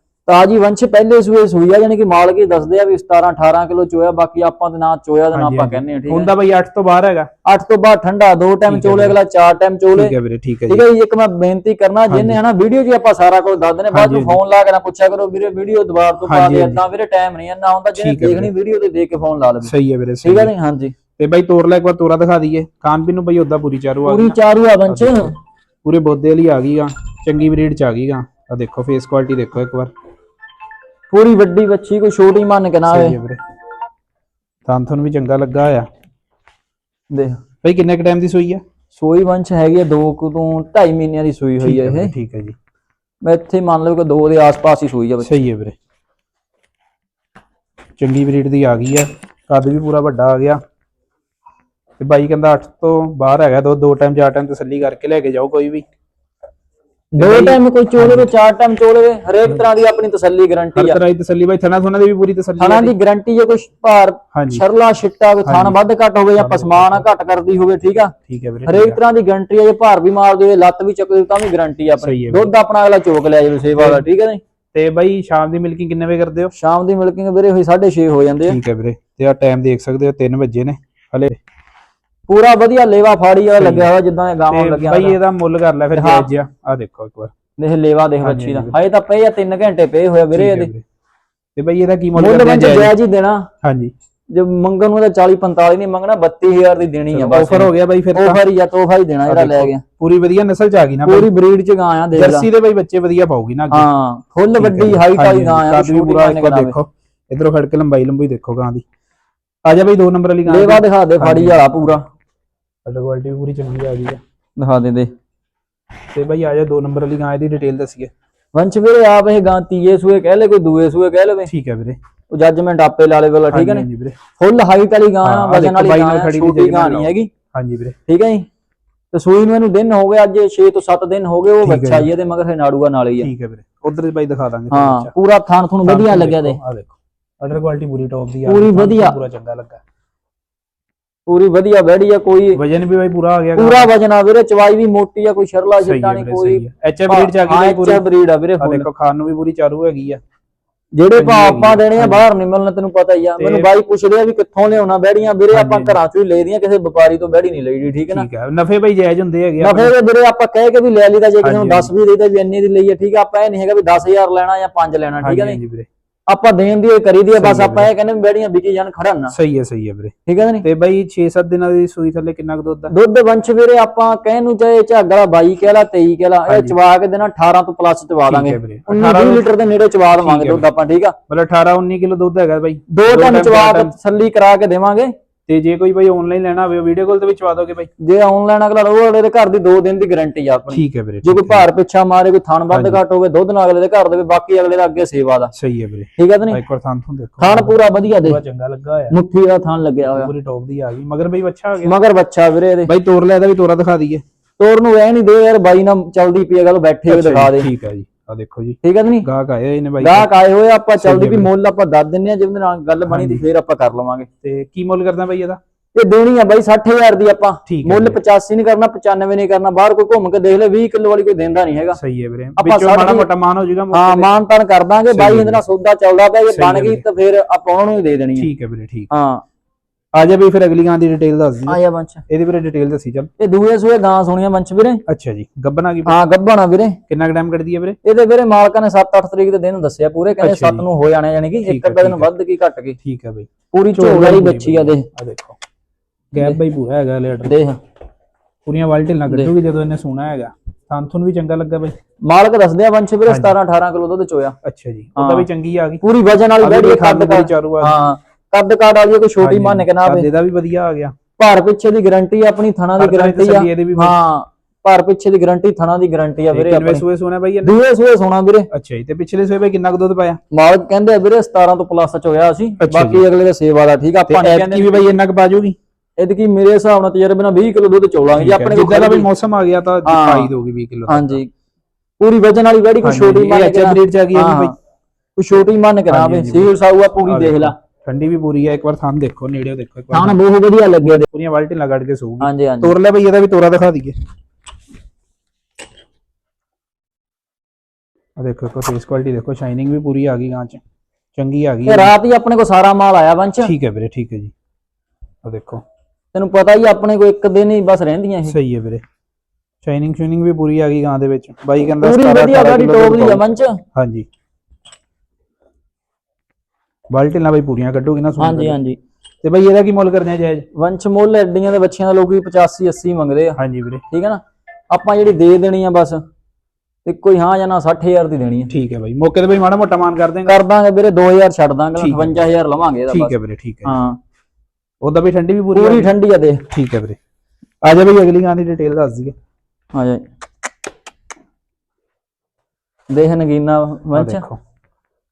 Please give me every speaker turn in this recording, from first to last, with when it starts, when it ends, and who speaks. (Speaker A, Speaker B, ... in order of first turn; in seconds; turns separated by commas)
Speaker A: 0.3-6.3, Speaker B: 5.3-7.3, Speaker A: 7.4-10.1, Speaker B: 8.7-9.2, Speaker B: 9.9-10.8, Speaker A: 10.7-20.9, Speaker B: 12.1-12.4, Speaker B: 13.9-14.4, Speaker B: 16.2-16.8, Speaker B: 17.9-18.5, Speaker B: 19.6-20.5, Speaker B: 21.2-25.3, Speaker A: 24.0-25.3, Speaker B: 25.8-29.9, Speaker A: 31.1-33.2, Speaker B: 32.9-33.4, Speaker B: 34.6-35.9, Speaker A: 37.1-37.4, Speaker B: 37.6-38.6, Speaker A: 38.9-42.1, Speaker B: 41.6-42.5, Speaker A: 43.2-45.3, Speaker B: 45.2-45.8, Speaker B: 48.0-50.6, Speaker B: 52.0-55.8, Speaker A: 57.1-61.0, Speaker B: 57.2-58.3, Speaker B: 60.8-62.9, Speaker A: 62.6-68.1, Speaker B: 64.3-64.6, Speaker B: 65.4-65.8, Speaker B: 66.3-67.0, Speaker B: 68.3-69.0, Speaker A: 68.7-74.4, Speaker B: 72.0-72.5, Speaker B: 73.8-74.0, Speaker B: 74.7-76.5, Speaker A: 76.5-78.6, Speaker B: 78.5-81.4, Speaker A: 82.3-85.2, Speaker B: 83.5-83.9, Speaker B: 84.5-87.3, Speaker A: 86.0-86.3, Speaker A: 87.6-90.7, Speaker B: 88.2-88.7, Speaker B: 90.3-90.8, Speaker B: 91.5-92.9, Speaker A: 92.1-93.5, Speaker B: 93.6-93.9, Speaker A: 94.3-99.8, Speaker B: 97.1-98.4, Speaker B: 99.3-101.3, Speaker A: 101.0-102.5, Speaker B: 102.1-103.8, Speaker A: 103.7-106.8, Speaker B: 104.6-108.8, Speaker B: 109.6-112.0, Speaker A: 110.5-112.0, Speaker B: 112.8-114.2, Speaker A: 114.6-115.1, Speaker B: 116.1-118.1, Speaker A: 118.5-121.5, Speaker B: 121.5-122.0, Speaker A: 122.3-123.8, Speaker B: 123.5-124.2, Speaker A: 124.4-127.3, Speaker B: 125.2-128.0, Speaker A: 128.1-128.5, Speaker A: 129.1-133.3, Speaker B: 131.6-132.1, Speaker B: 133.2-135.1, Speaker A: 134.7-136.6, Speaker B: 135.8-139.8, Speaker A: 138.4-139.2, Speaker A: 141.3-142.6, Speaker B: 142.5-143.9, Speaker A: 143.6-148.9, Speaker B: 145.8-148.0, Speaker B: 148.6-150.2, Speaker A: 150.9-158.3, Speaker B: 151.1-152.2, Speaker B: 153.4-153.7, Speaker B: 155.5-156.0, Speaker B: 158.1-159.9, Speaker A: 159.6-165.6, Speaker B: 161.4-161.9, Speaker B: 165.2-165.9, Speaker A: 166.3-169.3, Speaker B: 167.3-167.9, Speaker B: 169.3-172.9, Speaker A: 170.3-170.6, Speaker A: 172.9-181.2, Speaker B: 176.5-176.8, Speaker B: 178.3-179.5, Speaker B: 180.1-180.6, Speaker B: 181.3-183.9, Speaker A: 182.9-185.1, Speaker B: 185.5-187.9, Speaker A: 188.0-195.5, Speaker B: 190.7-191.7, Speaker B: 192.7-193.0, Speaker B: 195.5-199.1, Speaker A: 196.2-196.6, Speaker A: 197.4-198.4, Speaker A: 199.1-200.3, Speaker B: 200.0-201.9, Speaker A: 201.8-202.9, Speaker B: 202.8-204.2, Speaker A: 204.6-207.7, Speaker B: 207.1-210.3, Speaker A: 208.8-209.3, Speaker A: 210.0-214.3, Speaker B: 210.9-211.5, Speaker B: 213.0-213.4, Speaker B: 214.4-215.6, Speaker A: 215.9-222.0, Speaker B: 217.7-218.2, Speaker B: 221.9-224.3, Speaker A: 222.6-223.2, Speaker A: 223.9-228.5, Speaker B: 225.1-225.6, Speaker B: 226.5-227.0, Speaker B: 228.4-229.1, Speaker A: 229.1-229.4, Speaker B: 230.1-233.3, Speaker A: 231.7-232.2, Speaker A: 233.4-235.0, Speaker B: 235.1-236.2, Speaker A: 236.1-237.0, Speaker B: 237.1-238.0, Speaker A: 238.0-243.0, Speaker B: 240.4-240.9, Speaker B: 241.6-242.3, Speaker B: 243.0-245.6, Speaker A: 243.7-245.1, Speaker B: 246.3-247.6, Speaker A: 247.4-247.8, Speaker B: 248.7-251.9, Speaker A: 252.2-254.6, Speaker B: 253.3-253.5, Speaker B: 254.6-256.0, Speaker A: 255.2-255.5, Speaker A: 256.0-260.3, Speaker B: 256.6-258.0, Speaker B: 259.4-261.1, Speaker A: 261.4-267.1, Speaker B: 263.0-264.2, Speaker B: 266.5-267.8, Speaker A: 267.6-268.7, Speaker B: 268.7-270.4, Speaker A: 270.5-275.1, Speaker B: 272.8-273.2, Speaker B: 274.3-275.8, Speaker A: 276.2-279.3, Speaker B: 278.4-281.4, Speaker A: 280.0-280.5, Speaker A: 281.1-281.5, Speaker A: 282.2-284.7, Speaker B: 283.0-284.7, Speaker A: 285.4-287.7, Speaker B: 286.1-290.4, Speaker A: 290.1-291.2, Speaker B: 291.0-294.1, Speaker A: 292.4-292.9, Speaker B: 298.4-300.8, Speaker B: 301.3-302.1, Speaker A: 301.8-303.7, Speaker B: 303.6-304.5, Speaker B: 305.4-305.8, Speaker A: 306.3-308.6, Speaker B: 308.4-309.0, Speaker B: 309.8-313.4, Speaker A: 312.0-313.8, Speaker B: 313.9-314.3, Speaker B: 317.1-318.8, Speaker A: 318.4-319.0, Speaker B: 319.4-320.7, Speaker A: 320.7-323.6, Speaker B: 323.6-324.0, Speaker A: 324.1-326.2, Speaker A: 327.0-328.7, Speaker B: 328.7-330.6, Speaker A: 330.4-333.3, Speaker B: 331.9-332.5, Speaker B: 333.1-334.0, Speaker A: 333.8-334.2, Speaker B: 335.0-336.1, Speaker A: 335.7-336.6, Speaker B: 336.7-337.2, Speaker B: 337.8-339.3, Speaker A: 339.9-340.2, Speaker A: 343.1-344.4, Speaker B: 344.1-344.6